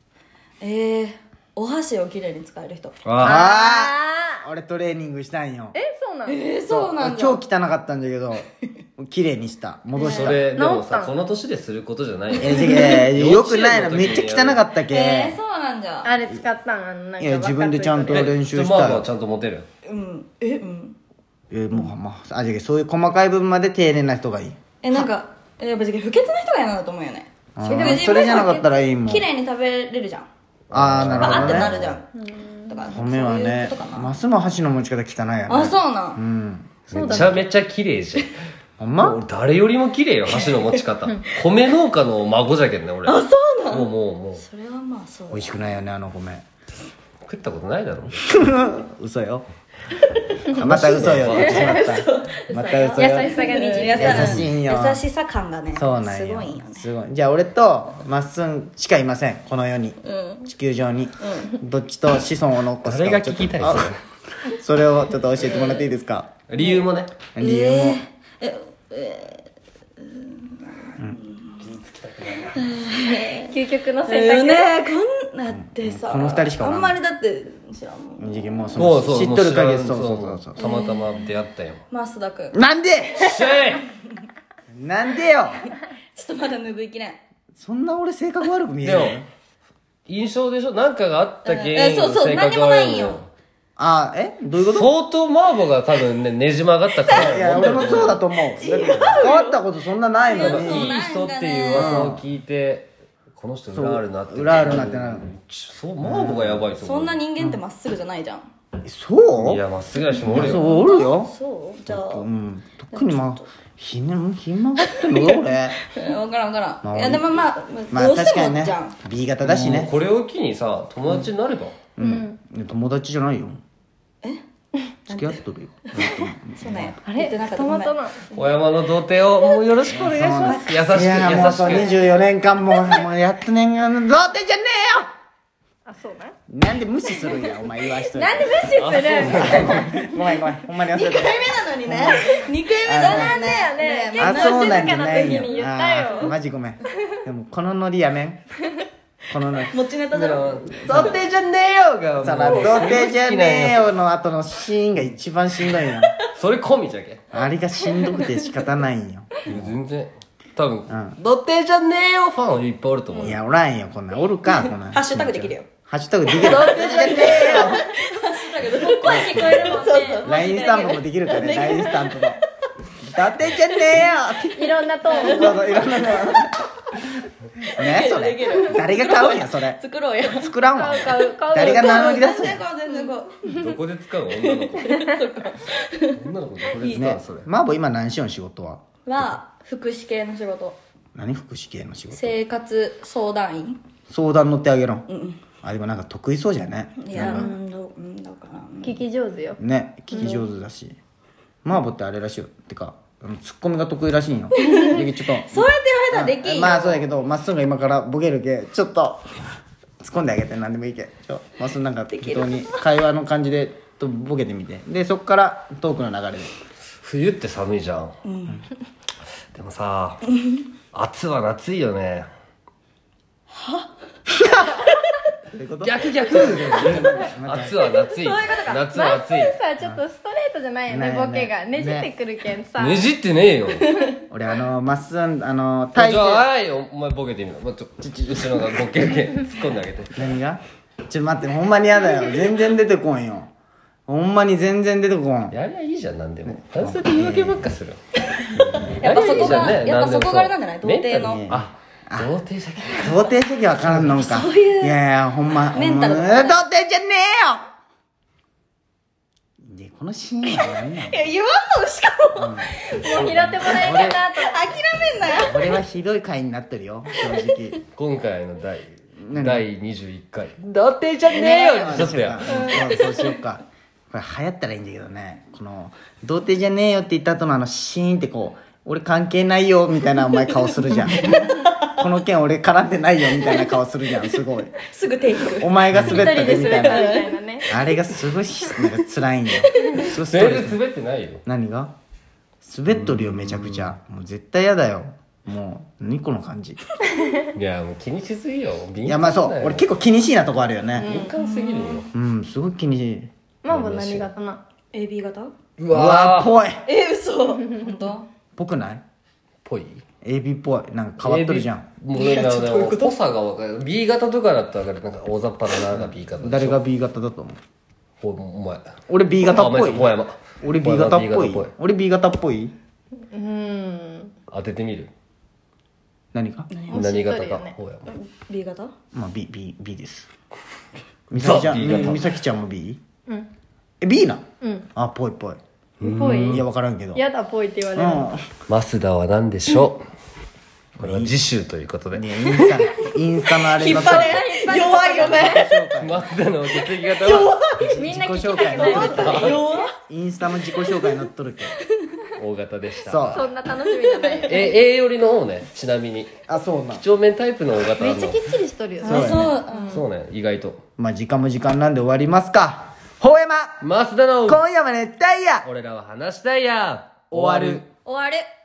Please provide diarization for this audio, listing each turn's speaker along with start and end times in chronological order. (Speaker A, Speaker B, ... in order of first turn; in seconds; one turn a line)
Speaker A: 0.6-3.0
Speaker B: 3.0-3.4
Speaker C: 3.2-5.8
Speaker D: 3.2-4.4
Speaker D: 5.7-6.4
Speaker A: 6.3-7.4
Speaker C: 6.7-8.5
Speaker C: 9.0-10.4
Speaker A: 10.0-10.3
Speaker B: 10.0-14.6
Speaker D: 10.5-11.1
Speaker C: 12.4-15.4
Speaker A: 12.4-13.0
Speaker A: 14.9-16.1
Speaker D: 16.0-18.4
Speaker C: 17.2-19.1
Speaker B: 18.1-19.7
Speaker A: 19.9-21.0
Speaker C: 21.5-25.1
Speaker A: 24.8-30.3
Speaker C: 27.6-29.3
Speaker D: 27.7-28.6
Speaker B: 30.7-31.9
Speaker C: 30.7-31.9
Speaker A: 31.1-32.1
Speaker D: 32.2-32.7
Speaker A: 32.7-34.1
Speaker C: 32.9-37.4
Speaker A: 35.5-36.2
Speaker B: 36.9-38.3
Speaker D: 36.9-37.4
Speaker C: 38.8-39.2
Speaker B: 39.0-44.4
Speaker A: 40.3-40.8
Speaker A: 43.0-45.7
Speaker C: 45.3-46.5
Speaker B: 47.2-48.3
Speaker C: 48.3-49.5
Speaker C: 50.5-55.0
Speaker B: 50.5-51.8
Speaker A: 51.3-56.9
Speaker D: 53.0-54.4
Speaker B: 54.2-54.5
Speaker C: 55.7-66.3
Speaker A: 60.0-60.5
Speaker A: 61.2-61.6
Speaker B: 62.8-64.0
Speaker A: 65.4-65.9
Speaker B: 66.5-67.1
Speaker A: 66.6-66.8
Speaker C: 67.3-68.0
Speaker A: 67.4-69.5
Speaker A: 70.0-71.8
Speaker B: 71.6-72.6
Speaker A: 72.5-78.5
Speaker D: 73.3-74.8
Speaker C: 75.5-77.0
Speaker C: 78.2-80.6
Speaker B: 78.8-81.8
Speaker A: 80.6-81.3
Speaker A: 81.9-82.6
Speaker C: 82.5-83.3
Speaker B: 83.2-83.8
Speaker C: 84.7-85.6
Speaker A: 86.1-87.2
Speaker C: 87.6-89.3
Speaker B: 88.8-89.2
Speaker B: 90.1-93.3
Speaker A: 91.4-93.2
Speaker C: 93.8-94.9
Speaker B: 94.7-98.2
Speaker A: 97.0-99.6
Speaker C: 97.1-101.0
Speaker A: 100.2-102.1
Speaker B: 100.3-107.2
Speaker C: 101.7-102.2
Speaker C: 103.7-105.3
Speaker C: 106.0-106.7
Speaker A: 106.8-108.5
Speaker C: 108.8-109.6
Speaker B: 109.3-110.6
Speaker A: 110.2-112.3
Speaker C: 110.2-111.3
Speaker C: 111.9-115.8
Speaker A: 112.9-113.5
Speaker A: 115.9-119.0
Speaker C: 116.8-117.4
Speaker C: 117.9-119.9
Speaker B: 119.4-121.8
Speaker C: 122.0-123.6
Speaker D: 122.0-122.4
Speaker C: 125.1-127.0
Speaker A: 125.1-125.4
Speaker A: 126.0-128.5
Speaker D: 127.0-128.2
Speaker B: 128.3-131.9
Speaker C: 129.9-135.1
Speaker A: 130.4-131.7
Speaker D: 131.7-132.1
Speaker D: 135.9-136.3
Speaker C: 136.5-143.3
Speaker D: 138.0-140.2
Speaker B: 138.8-139.9
Speaker A: 140.9-146.3
Speaker D: 142.9-146.3
Speaker C: 144.2-148.4
Speaker D: 146.9-147.2
Speaker C: 149.3-149.8
Speaker A: 149.7-151.1
Speaker B: 150.1-153.9
Speaker C: 150.6-151.2
Speaker C: 152.2-156.1
Speaker A: 155.7-156.3
Speaker B: 156.4-157.2
Speaker C: 157.3-159.7
Speaker B: 159.4-163.4
Speaker C: 160.9-161.2
Speaker C: 163.2-167.9
Speaker A: 164.5-165.7
Speaker A: 166.3-172.3
Speaker D: 166.4-167.9
Speaker B: 166.5-167.3
Speaker D: 168.8-170.7
Speaker C: 169.0-172.4
Speaker C: 173.0-176.6
Speaker D: 174.6-175.8
Speaker A: 175.1-176.4
Speaker A: 177.7-180.5
Speaker C: 177.7-182.7
Speaker D: 180.8-182.2
Speaker A: 181.5-183.4
Speaker B: 183.5-185.0
Speaker A: 184.3-187.1
Speaker B: 186.2-187.5
Speaker C: 186.8-189.3
Speaker A: 189.1-190.8
Speaker C: 191.2-192.4
Speaker A: 192.1-193.8
Speaker C: 194.1-195.1
Speaker A: 195.1-195.4
Speaker C: 195.6-197.5
Speaker A: 197.0-199.0
Speaker D: 197.2-197.5
Speaker D: 198.8-199.6
Speaker C: 199.6-201.0
Speaker A: 200.1-200.4
Speaker C: 201.6-209.3
Speaker A: 204.6-207.0
Speaker C: 210.0-216.5
Speaker A: 212.1-212.9
Speaker B: 217.0-218.2
Speaker A: 218.2-218.7
Speaker B: 219.5-220.2
Speaker B: 220.9-222.3
Speaker A: 223.5-223.9
Speaker C: 225.5-227.8
Speaker B: 225.8-229.6
Speaker A: 227.9-229.1
Speaker D: 228.9-233.1
Speaker C: 230.9-232.1
Speaker B: 232.8-233.9
Speaker A: 233.8-234.2
Speaker C: 234.3-236.5
Speaker B: 235.9-240.3
Speaker C: 238.0-238.5
Speaker C: 240.1-243.5
Speaker C: 244.1-245.6
Speaker B: 245.5-248.0
Speaker C: 246.5-247.6
Speaker B: 248.5-254.2
Speaker A: 248.8-251.5
Speaker C: 251.3-252.3
Speaker C: 252.9-257.7
Speaker A: 254.2-255.0
Speaker A: 255.7-256.6
Speaker C: 259.6-261.3
Speaker A: 260.4-262.6
Speaker C: 262.4-262.7
Speaker D: 262.9-264.8
Speaker B: 263.1-263.9
Speaker C: 263.6-264.2
Speaker A: 263.7-265.8
Speaker C: 265.2-267.8
Speaker B: 267.9-272.9
Speaker C: 269.2-269.7
Speaker C: 271.3-284.7
Speaker D: 272.5-273.0
Speaker A: 273.0-273.3
Speaker A: 281.3-281.7
Speaker A: 283.3-287.9
Speaker C: 285.5-287.2
Speaker B: 285.9-286.2
Speaker D: 286.0-287.7
Speaker C: 287.7-290.8
Speaker A: 289.6-290.1
Speaker B: 290.2-291.4
Speaker C: 291.5-291.9
Speaker C: 292.6-296.8
Speaker B: 292.9-293.9
Speaker D: 297.2-297.4
Speaker B: 297.5-299.9
Speaker C: 299.1-301.2
Speaker D: 301.0-302.0
Speaker B: 301.0-302.1
Speaker A: 301.4-302.0
Speaker C: 302.1-303.3
Speaker D: 303.6-304.6
Speaker B: 303.7-304.3
Speaker A: 304.9-305.5
Speaker B: 305.8-306.5
Speaker C: 305.9-306.9
Speaker A: 306.9-308.3
Speaker C: 308.6-309.0
Speaker B: 309.6-310.0
Speaker C: 310.2-311.9
Speaker B: 311.2-316.8
Speaker A: 312.1-313.2
Speaker C: 315.9-317.6
Speaker B: 318.2-321.7
Speaker C: 319.1-322.7
Speaker D: 323.3-324.3
Speaker B: 324.5-325.1
Speaker C: 326.3-326.7
Speaker A: 326.7-327.0
Speaker D: 326.9-327.8
Speaker B: 326.9-328.1
Speaker A: 328.1-328.9
Speaker C: 329.1-330.3
Speaker C: 331.3-333.0
Speaker B: 331.4-332.2
Speaker C: 334.0-335.6
Speaker D: 334.6-334.9
Speaker D: 336.0-336.6
Speaker B: 336.0-336.6
Speaker C: 336.4-337.2
Speaker D: 337.1-338.3
Speaker C: 337.9-338.4
Speaker B: 338.7-340.0
Speaker C: 341.0-341.4
Speaker B: 341.0-342.9
Speaker C: 342.1-344.5
Speaker A: 343.7-345.9
Speaker D: 343.8-345.7
Speaker C: 345.1-346.3
Speaker B: 346.0-347.5
Speaker A: 346.8-348.1
Speaker C: 347.8-351.7
Speaker D: 348.0-349.7
Speaker A: 348.7-349.9
Speaker B: 349.1-349.6
Speaker B: 352.4-353.5
Speaker C: 353.0-353.4
Speaker D: 353.3-354.8
Speaker A: 353.9-354.7
Speaker B: 354.5-356.3
Speaker C: 356.5-357.0
Speaker B: 357.0-358.4
Speaker D: 358.0-360.0
Speaker A: 359.0-360.0
Speaker C: 359.0-359.6
Speaker B: 359.9-360.8
Speaker C: 361.0-363.8
Speaker B: 363.8-364.6
Speaker C: 364.5-365.7
Speaker B: 365.6-367.9
Speaker C: 367.3-367.8
Speaker A: 368.1-368.5